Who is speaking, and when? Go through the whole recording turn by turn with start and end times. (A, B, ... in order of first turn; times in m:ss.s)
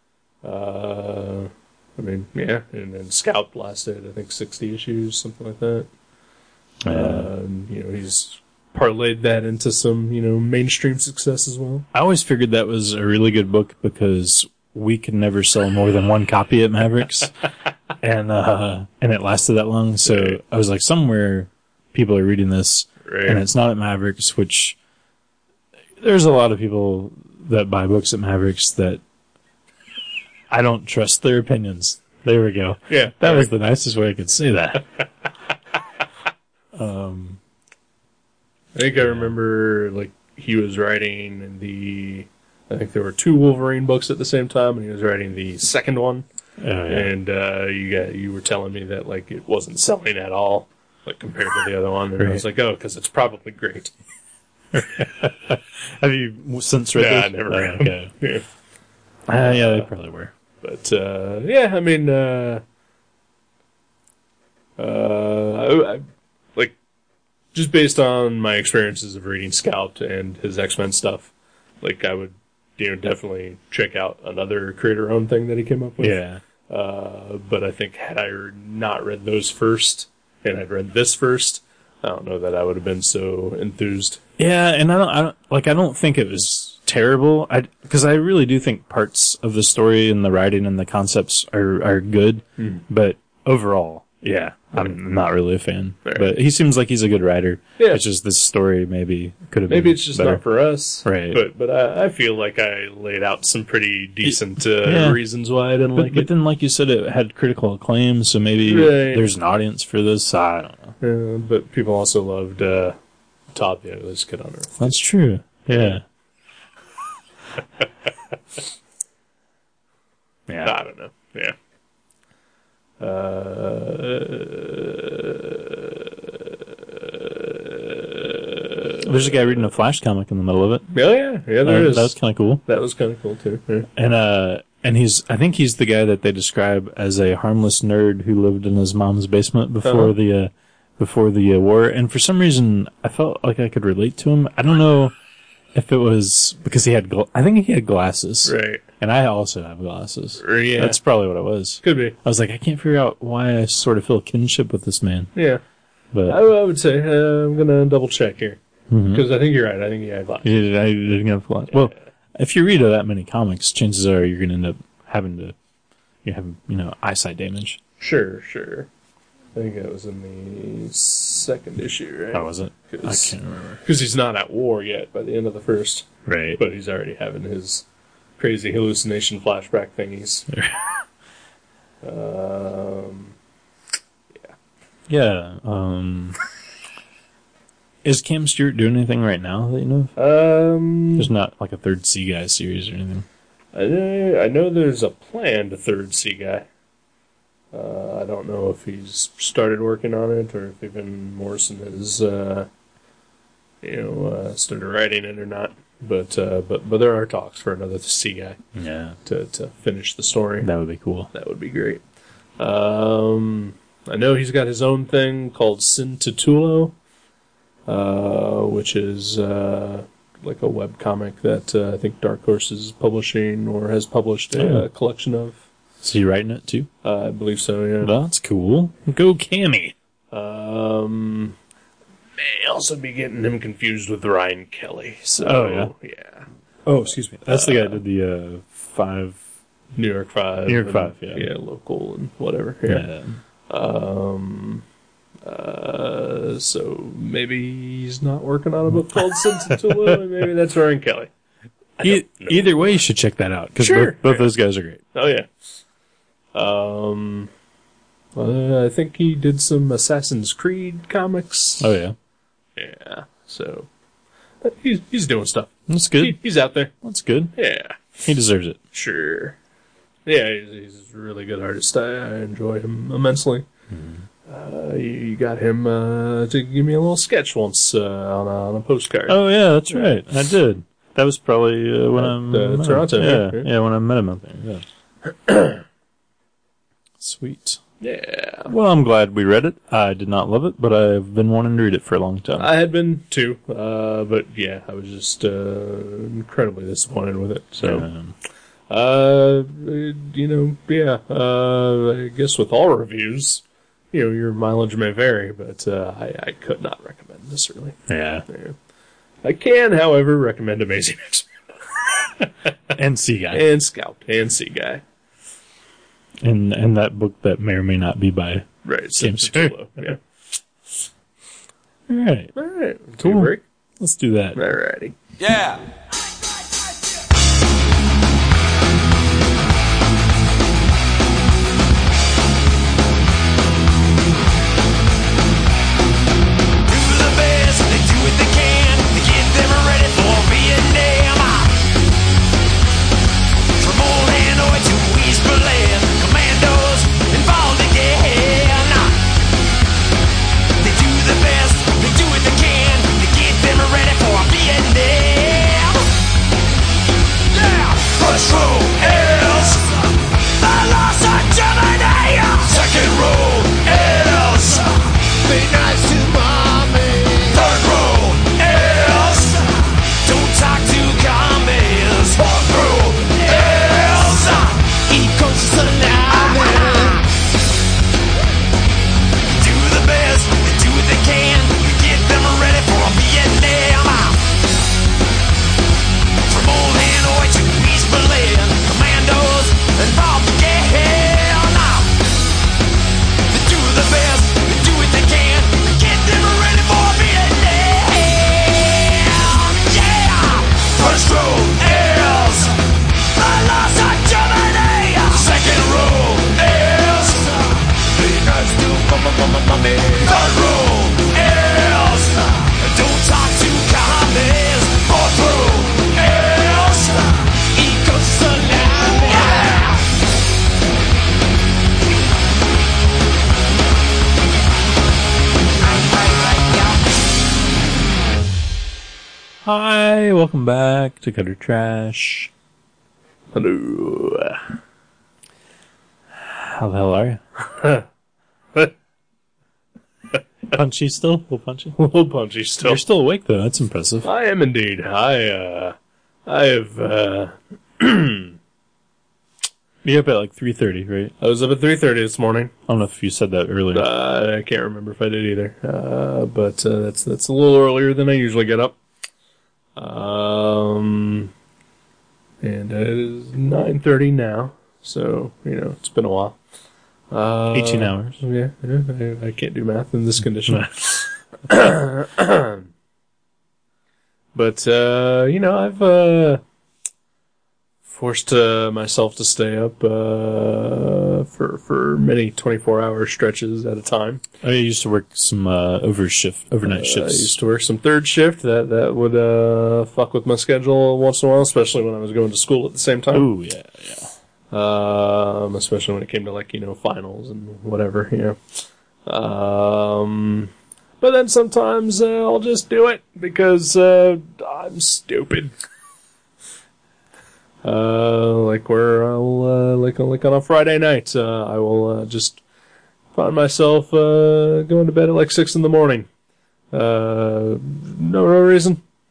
0:00.4-0:05.9 A
0:06.8-0:07.3 B
0:06.9-0:11.9 A
0:11.9-0:17.3 B
0:18.0-0:24.8 B
0:20.0-0:20.4 A
0:23.0-0:23.4 A
0:26.0-0:29.0 B
0:30.5-0:34.9 B
0:32.9-0:33.5 A
0:36.7-0:37.4 B
0:38.7-0:46.2 A
0:39.0-0:39.3 B
0:46.6-0:47.1 B
0:46.9-0:53.9 A
0:52.2-0:52.4 B
0:54.7-0:58.1 B
0:56.9-0:58.4 A
0:59.3-1:00.3 B
0:59.4-0:59.9 A
1:00.6-1:02.6 A
1:04.8-1:06.7 A
1:07.5-1:24.2 A
1:16.0-1:16.4 B
1:24.4-1:40.4 B
1:32.6-1:32.8 A
1:36.0-1:36.3 A
1:37.8-1:38.0 A
1:39.7-1:46.3 A
1:41.0-1:41.4 B
1:44.2-1:45.2 B
1:46.0-1:50.9 B
1:48.6-1:49.3 A
1:51.0-1:53.0 A
1:53.5-1:55.0 A
1:54.8-1:56.0 B
1:55.7-1:56.0 A
2:00.5-2:00.7 B
2:00.6-2:01.5 A
2:03.0-2:06.2 A
2:06.9-2:09.4 A
2:09.0-2:10.9 B
2:10.9-2:12.1 A
2:11.6-2:12.6 B
2:12.6-2:13.9 A
2:13.9-2:25.1 B
2:19.8-2:20.1 A
2:25.7-2:35.3 B
2:28.4-2:28.8 A
2:30.4-2:31.0 A
2:31.8-2:32.2 A
2:35.3-2:35.6 A
2:36.1-2:36.4 B
2:36.3-2:40.5 A
2:38.9-2:39.3 B
2:40.4-2:45.6 B
2:46.2-2:47.8 B
2:48.0-2:48.9 A
2:49.5-2:57.8 A
2:52.3-2:53.8 B
2:56.2-2:56.6 B
2:58.4-3:00.5 A
3:00.5-3:00.8 B
3:02.0-3:03.3 A
3:05.1-3:06.4 B
3:08.0-3:10.1 B
3:10.2-3:11.3 A
3:11.2-3:13.2 B
3:13.7-3:16.6 A
3:17.7-3:22.7 A
3:23.8-3:28.6 A
3:28.7-3:29.2 B
3:29.2-3:30.7 A
3:30.6-3:31.3 B
3:31.3-3:32.0 A
3:32.6-3:36.9 A
3:37.9-3:45.6 A
3:44.6-3:44.9 B
3:46.0-3:46.9 B
3:47.0-3:48.1 A
3:48.0-3:49.9 B
3:50.3-3:51.6 A
3:52.4-3:56.5 A
3:55.4-3:55.9 B
3:56.9-3:59.4 B
3:57.5-3:58.0 A
3:59.9-4:03.1 A
4:00.6-4:01.5 B
4:02.9-4:03.4 B
4:03.7-4:04.8 A
4:05.4-4:11.3 A
4:09.7-4:10.1 B
4:12.0-4:13.0 A
4:12.0-4:15.0 B
4:13.8-4:14.5 A
4:15.1-4:15.5 A
4:16.5-4:17.5 A
4:18.3-4:21.9 A
4:21.8-4:22.2 B
4:22.8-4:23.9 A
4:24.6-4:26.9 A
4:25.9-4:26.4 B
4:27.0-4:27.6 B
4:27.6-4:28.1 A
4:28.2-4:28.8 B
4:28.9-4:29.6 A
4:30.3-4:33.6 A
4:33.9-4:34.3 B
4:34.5-4:40.2 A
4:39.3-4:44.8 B
4:42.2-4:43.7 A
4:45.3-4:45.8 A
4:47.2-4:47.8 B
4:48.0-4:48.7 A
4:48.7-4:52.7 B
4:52.5-4:58.1 A
4:57.8-4:58.3 B
4:58.9-5:08.8 A
5:08.1-5:08.4 B
5:09.4-5:11.5 A
5:12.9-5:13.6 B
5:13.5-5:15.0 A
5:16.4-5:19.8 B
5:18.8-5:20.2 A
5:22.1-5:22.5 B
5:22.6-5:23.6 A
5:23.2-5:24.6 B
5:24.6-5:25.2 A
5:25.4-5:25.8 C
5:36.9-5:41.8 C
5:43.8-5:49.2 C
5:50.8-5:56.1 C
5:57.5-6:00.1 C
6:00.6-6:17.3 C
6:19.6-6:24.4 C
6:26.5-6:32.2 C
6:33.5-6:42.8 C
6:43.3-7:00.0 C
7:05.8-7:07.0 C
7:09.6-7:12.5 B
7:13.5-7:14.6 A
7:16.3-7:17.4 B
7:17.7-7:18.0 A
7:20.7-7:22.0 B
7:22.0-7:23.0 A
7:22.8-7:24.3 B
7:24.2-7:28.6 A
7:30.0-7:31.3 B
7:31.4-7:32.7 A
7:32.9-7:34.1 B
7:33.9-7:39.0 A
7:40.0-7:41.5 A
7:42.6-7:46.6 A
7:47.3-7:52.9 A
7:47.7-7:48.4 B
7:50.7-7:50.9 B
7:54.5-7:56.6 A
7:58.1-8:04.4 A
8:04.6-8:07.6 B
8:06.8-8:13.5 A
8:13.3-8:14.3 B
8:14.7-8:18.6 A
8:19.3-8:25.7 A
8:27.8-8:32.6 A
8:33.3-8:36.3 A
8:36.9-8:39.0 A